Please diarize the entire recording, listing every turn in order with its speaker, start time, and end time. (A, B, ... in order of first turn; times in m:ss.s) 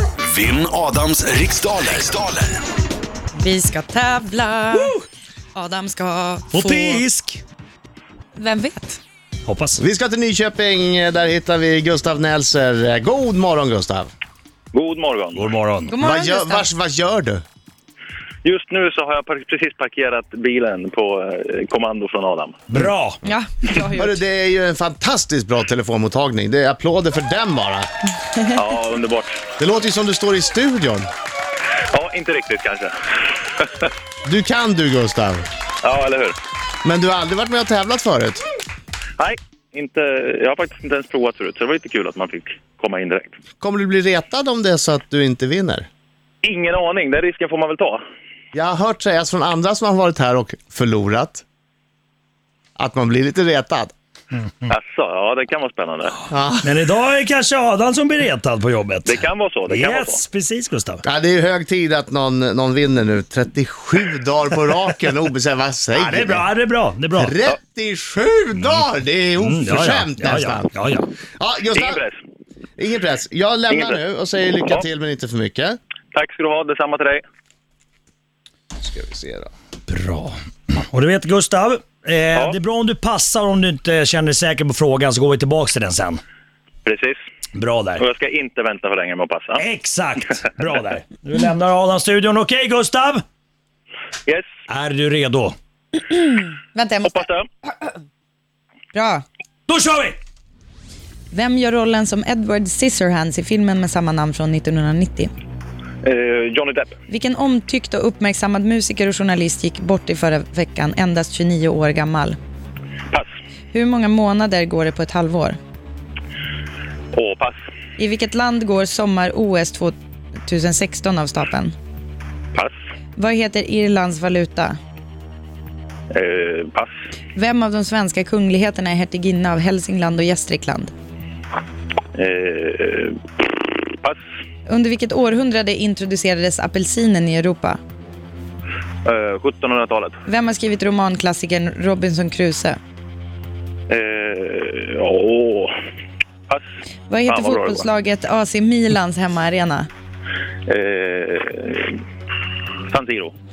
0:00.2-0:02.6 A
0:03.3-0:05.0 B
0:05.5-0:07.0 B
0:06.5-0:07.4 C
0:08.3-0:09.0 B
0:09.4-0:09.8 C
0:09.8-0:14.1 D
0:14.7-0:15.4 E
0:15.3-0:15.9 C
0:15.9-0:16.7 B
0:16.0-0:17.4 D
0:18.4-0:22.6 E
0:22.7-0:23.2 C
0:23.2-0:24.2 B
0:24.0-0:27.9 D
0:28.5-0:29.4 E
0:29.6-0:31.1 D
0:31.9-0:32.9 E
0:33.6-0:33.9 E
0:34.2-0:35.5 D
0:35.8-0:36.3 E
0:36.8-0:38.4 D
0:39.2-0:43.3 E
0:43.6-0:45.9 D
0:46.4-0:48.0 E
0:48.5-0:51.4 D
0:52.8-0:53.9 D
0:54.7-0:56.2 E
0:56.3-0:56.8 D
0:56.6-1:01.0 C
0:59.0-1:00.2 E
1:01.0-1:06.5 D
1:05.9-1:07.3 C
1:07.2-1:10.7 D
1:09.4-1:11.0 C
1:11.4-1:12.0 D
1:11.7-1:12.2 E
1:12.8-1:15.8 D
1:13.7-1:14.0 E
1:16.1-1:17.2 E
1:18.8-1:19.5 D
1:19.9-1:26.2 C
1:26.8-1:27.2 E
1:27.5-1:28.0 C
1:28.0-1:29.6 E
1:29.6-1:33.2 C
1:34.7-1:35.6 C
1:36.0-1:37.2 B
1:37.0-1:37.5 E
1:38.9-1:39.2 B
1:39.7-1:40.2 C
1:41.3-1:45.3 B
1:46.0-1:46.9 E
1:47.1-1:52.4 B
1:53.7-1:55.6 B
1:57.1-1:57.6 E
1:58.0-1:59.9 B
2:00.4-2:01.7 B
2:03.2-2:04.8 B
2:06.1-2:06.9 E
2:07.4-2:10.9 B
2:12.2-2:13.4 E
2:14.7-2:17.8 B
2:19.0-2:20.2 E
2:20.2-2:22.8 B
2:23.9-2:25.7 E
2:27.1-2:29.9 B
2:27.3-2:27.8 E
2:30.7-2:32.0 E
2:32.9-2:33.3 E